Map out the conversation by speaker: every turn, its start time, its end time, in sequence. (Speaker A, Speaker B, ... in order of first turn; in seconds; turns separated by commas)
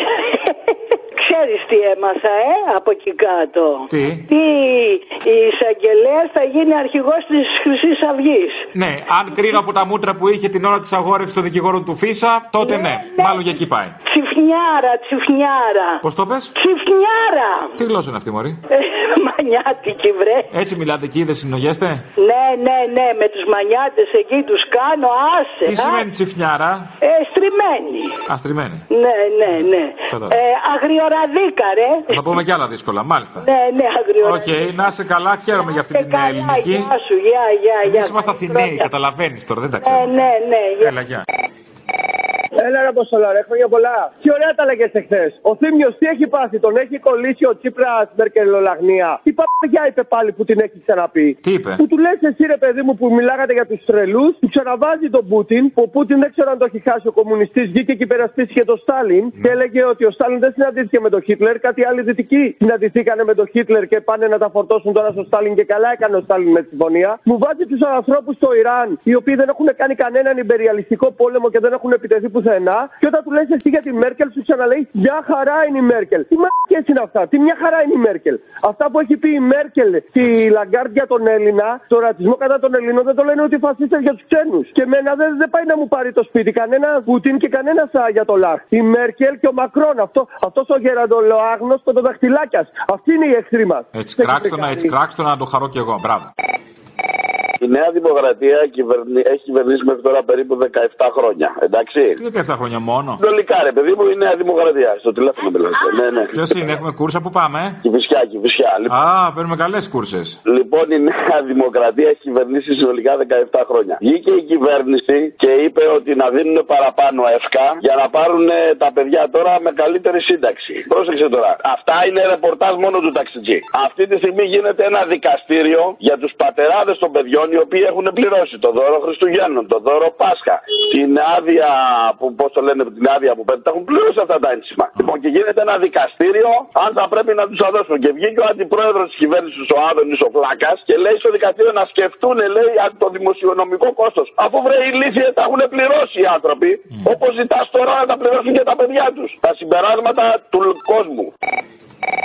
Speaker A: 0.2-8.7, Speaker B: 3.9-4.3, Speaker B: 8.7-13.9, Speaker A: 12.6-13.5, Speaker A: 14.1-16.0, Speaker B: 16.0-16.5, Speaker A: 16.6-17.7, Speaker B: 17.8-18.6, Speaker A: 18.7-20.5, Speaker B: 20.5-22.1, Speaker A: 22.2-26.1, Speaker B: 25.6-26.9, Speaker A: 27.0-28.2, Speaker B: 28.2-28.8, Speaker A: 28.9-32.2, Speaker B: 29.5-30.4, Speaker B: 32.1-33.5, Speaker A: 33.4-34.6, Speaker B: 34.2-36.9, Speaker A: 35.5-38.9, Speaker B: 37.8-40.3, Speaker A: 39.8-40.9, Speaker B: 40.8-41.2, Speaker C: 42.6-94.9, Speaker B: 51.4-51.8, Speaker B: 93.9-96.3, Speaker D: 97.6-102.2, Speaker B: 102.2-103.2, Speaker D: 103.2-106.3, Speaker B: 106.3-107.8, Speaker D: 107.8-108.9, Speaker B: 108.9-110.4, Speaker D: 110.5-151.3